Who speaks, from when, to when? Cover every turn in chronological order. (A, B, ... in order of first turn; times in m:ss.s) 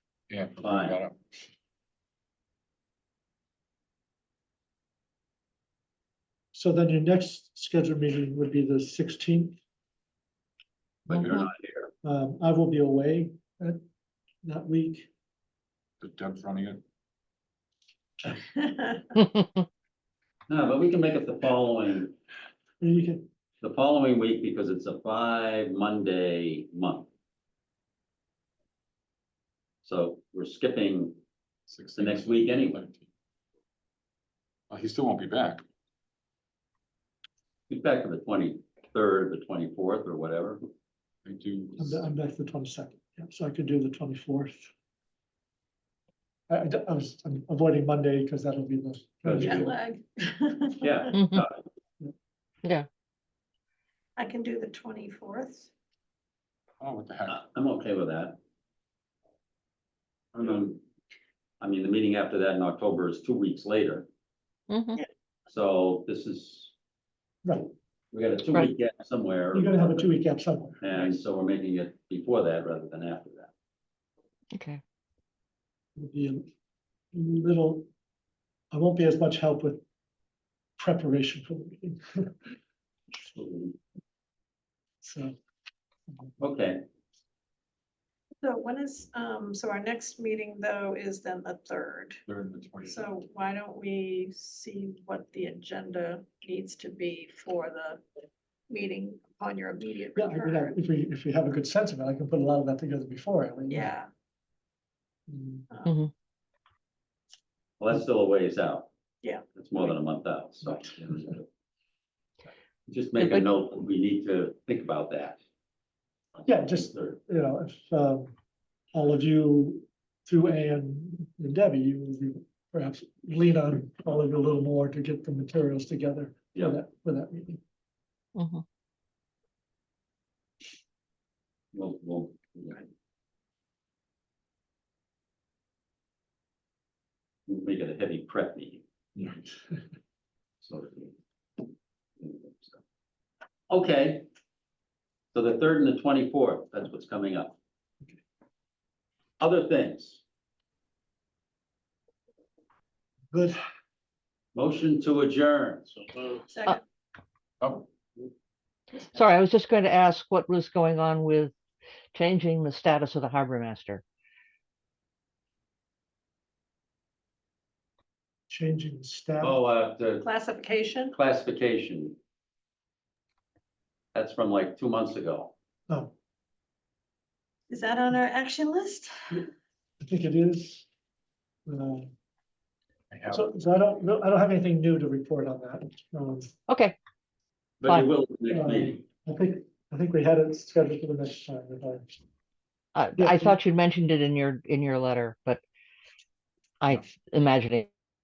0:00.3-0:01.4 A
0:00.6-0:01.0 B
0:06.5-0:09.6 C
0:11.1-0:11.4 A
0:11.1-0:11.9 B
0:12.0-0:13.8 C
0:14.4-0:15.1 C
0:16.0-0:16.8 A
0:18.6-0:19.1 D
0:20.5-0:22.1 B
0:22.8-0:23.2 C
0:23.6-0:27.1 B
0:29.8-0:31.2 B
0:31.7-0:33.0 A
0:32.0-0:32.8 B
0:34.7-0:35.6 A
0:37.7-0:40.6 B
0:41.2-0:42.0 A
0:41.8-0:44.7 C
0:46.5-0:49.8 C
0:49.2-0:49.7 B
0:49.4-0:51.1 D
0:50.8-0:51.5 B
0:51.1-0:51.4 E
0:54.2-0:55.7 D
0:56.8-0:57.4 A
0:57.3-0:58.4 B
1:00.3-1:00.8 B
1:01.6-1:04.1 B
1:04.7-1:05.0 E
1:05.5-1:06.7 B
1:07.4-1:07.7 C
1:08.1-1:10.2 B
1:09.5-1:10.8 C
1:10.8-1:13.5 B
1:14.5-1:14.8 E
1:16.0-1:16.4 C
1:17.1-1:17.9 C
1:18.7-1:19.8 C
1:20.8-1:22.3 C
1:23.3-1:23.7 B
1:25.0-1:25.4 C
1:26.4-1:26.8 B
1:28.4-1:32.2 D
1:32.2-1:33.1 A
1:32.8-1:38.0 D
1:38.7-1:40.7 D
1:40.1-1:43.9 C
1:43.7-1:44.1 D
1:45.3-1:45.7 C
1:45.8-1:46.1 E
1:47.8-1:48.9 B
1:49.5-1:51.4 B
1:52.9-1:55.4 B
1:53.2-1:53.5 E
1:56.4-1:57.1 B
1:56.4-1:58.3 C
1:58.9-2:07.6 C
2:08.4-2:08.6 E
2:11.7-2:12.8 B
2:17.5-2:18.8 B
2:19.2-2:19.4 A
2:20.6-2:21.1 B
2:22.2-2:22.8 B
2:23.7-2:24.3 B
2:25.3-2:27.6 B
2:29.4-2:30.2 B
2:33.3-2:33.6 C
2:34.5-2:35.8 B
2:36.5-2:36.8 D
2:37.6-2:37.9 A
2:39.1-2:41.5 E
2:42.1-2:44.0 E
2:48.5-2:49.6 C
2:49.4-2:50.2 B
2:50.2-2:51.1 D
2:51.1-2:52.2 B
2:54.1-2:55.5 B
2:57.7-2:59.4 D
3:00.0-3:00.9 C
3:01.7-3:02.1 C
3:03.1-3:03.5 A
3:03.3-3:06.5 C
3:06.7-3:07.0 E
3:07.8-3:09.0 B
3:08.5-3:12.1 C
3:12.9-3:15.6 E
3:13.2-3:13.6 C
3:16.8-3:17.9 E